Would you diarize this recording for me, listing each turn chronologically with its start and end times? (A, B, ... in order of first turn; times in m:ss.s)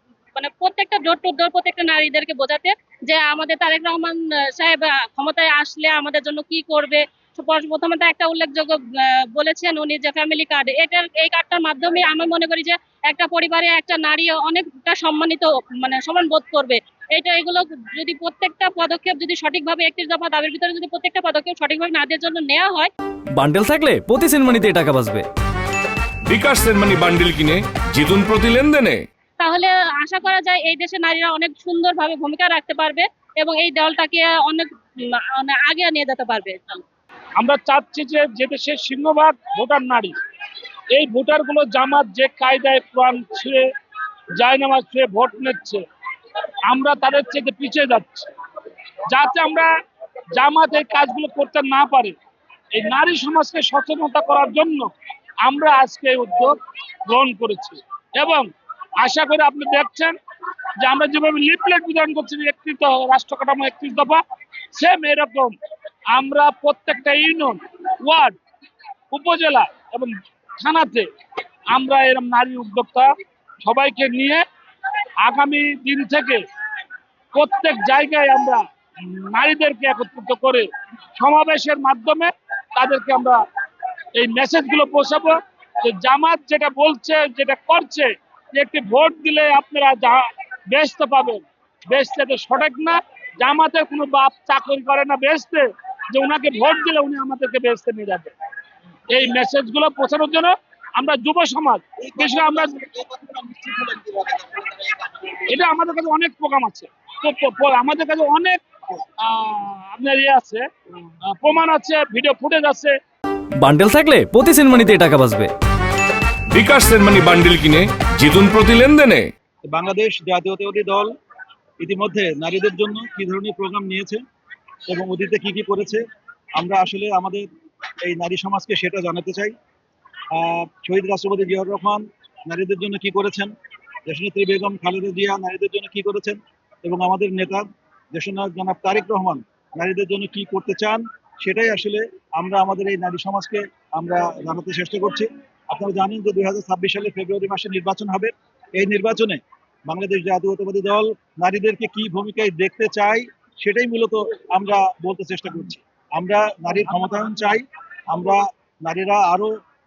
0:00.4-0:22.9 A
0:23.3-0:25.3 B
0:26.3-0:29.0 C
0:29.4-0:34.7 A
0:35.3-0:36.8 A
0:37.4-0:43.7 D
0:44.4-0:45.8 D
0:46.4-0:49.7 D
0:50.4-0:52.2 D
0:52.7-0:54.9 D
0:55.4-0:58.5 D
0:59.0-1:00.2 D
1:00.8-1:04.2 D
1:04.7-1:05.6 D
1:06.1-1:08.4 D
1:09.1-1:11.1 D
1:11.7-1:13.1 D
1:13.6-1:14.4 D
1:15.2-1:16.4 D
1:17.3-1:23.4 D
1:24.2-1:38.3 D
1:39.1-1:48.6 D
1:49.2-1:53.0 D
1:53.6-1:55.5 B
1:56.5-1:59.3 C
1:59.7-2:01.1 E
2:01.8-2:04.2 E
2:04.9-2:06.0 E
2:06.6-2:07.5 E
2:08.0-2:09.5 E
2:10.3-2:13.5 E
2:14.0-2:39.5 E